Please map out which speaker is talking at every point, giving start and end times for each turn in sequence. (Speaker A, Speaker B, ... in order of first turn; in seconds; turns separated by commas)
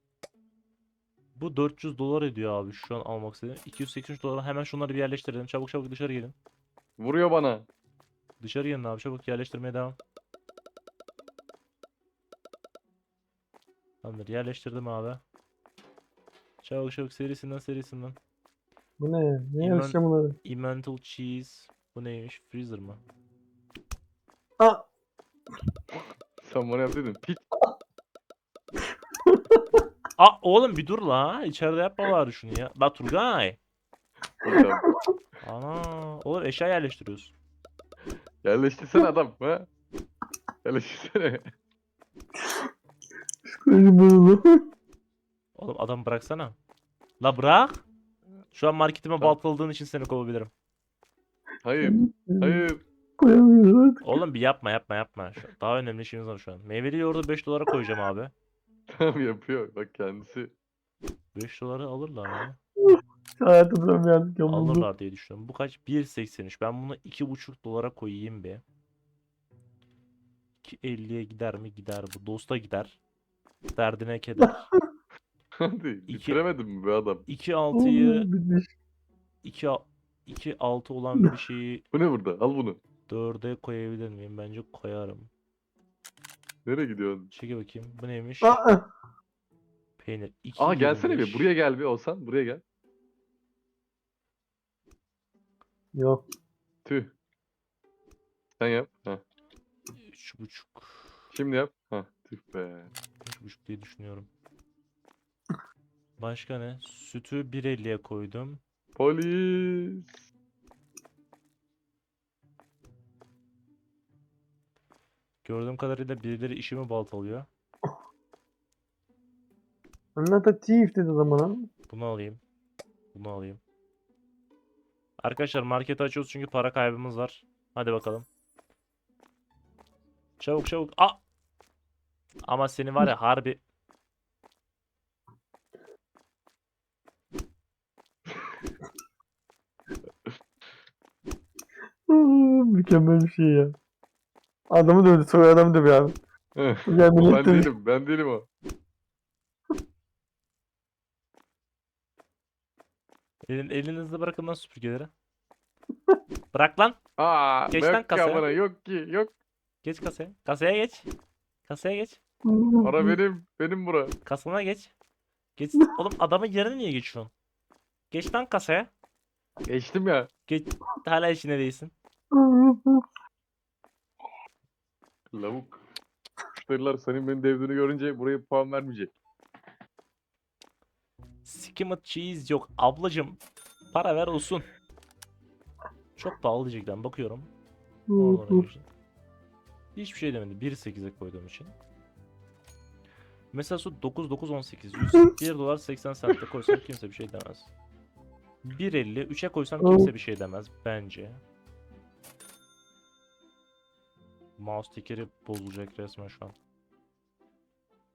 Speaker A: 1.4-6.4, Speaker B: 7.0-7.7, Speaker A: 8.4-10.0, Speaker A: 14.0-15.2, Speaker A: 16.6-18.2, Speaker C: 19.0-20.4, Speaker A: 19.6-23.0, Speaker B: 26.4-27.4, Speaker C: 29.3-29.6, Speaker A: 30.2-33.6, Speaker B: 34.4-34.9, Speaker A: 35.4-37.3, Speaker B: 38.4-39.7, Speaker B: 40.6-41.4, Speaker C: 43.5-44.6, Speaker A: 45.5-46.6, Speaker A: 47.2-47.9, Speaker A: 48.5-50.5, Speaker B: 51.6-52.8, Speaker C: 51.8-52.7, Speaker C: 53.2-54.1, Speaker A: 54.0-58.3, Speaker B: 58.9-60.5, Speaker A: 61.3-62.6, Speaker C: 62.8-64.9, Speaker A: 64.5-68.6, Speaker A: 70.6-73.0, Speaker A: 73.7-74.7, Speaker B: 75.6-77.2, Speaker A: 76.1-76.4, Speaker A: 77.3-78.3, Speaker C: 77.7-78.7, Speaker A: 79.4-81.8, Speaker B: 81.9-82.8, Speaker A: 83.1-85.3, Speaker B: 86.7-87.3, Speaker A: 87.3-88.7, Speaker C: 88.4-88.9, Speaker A: 90.0-91.5, Speaker B: 90.6-92.6, Speaker C: 96.0-96.2, Speaker B: 96.8-97.1, Speaker B: 98.6-99.2, Speaker A: 100.0-101.2, Speaker B: 101.3-102.9, Speaker A: 103.2-104.3, Speaker A: 106.2-108.6, Speaker B: 109.0-110.2, Speaker A: 115.4-117.5, Speaker C: 120.2-121.7, Speaker A: 121.9-122.4, Speaker A: 123.1-123.6, Speaker A: 125.2-128.3, Speaker A: 130.4-131.2, Speaker A: 132.4-133.6, Speaker C: 142.1-143.8, Speaker C: 144.7-146.2, Speaker B: 146.6-148.5, Speaker C: 146.9-147.7, Speaker A: 153.5-155.1, Speaker A: 156.5-157.0, Speaker B: 157.2-159.3, Speaker A: 157.7-158.5, Speaker A: 159.8-161.1, Speaker A: 161.7-162.2, Speaker C: 162.5-163.2, Speaker B: 162.8-164.1, Speaker A: 164.2-164.9, Speaker A: 165.6-167.3, Speaker A: 168.1-168.9, Speaker B: 169.7-170.3, Speaker A: 170.5-171.9, Speaker C: 172.3-173.0, Speaker B: 175.3-175.8, Speaker B: 176.5-179.1, Speaker A: 181.4-183.4, Speaker A: 183.9-184.7, Speaker A: 186.2-187.5, Speaker C: 188.1-188.7, Speaker A: 188.2-188.8, Speaker A: 190.0-191.8, Speaker A: 193.5-197.7, Speaker A: 198.6-201.4, Speaker C: 199.8-200.1, Speaker A: 204.6-206.6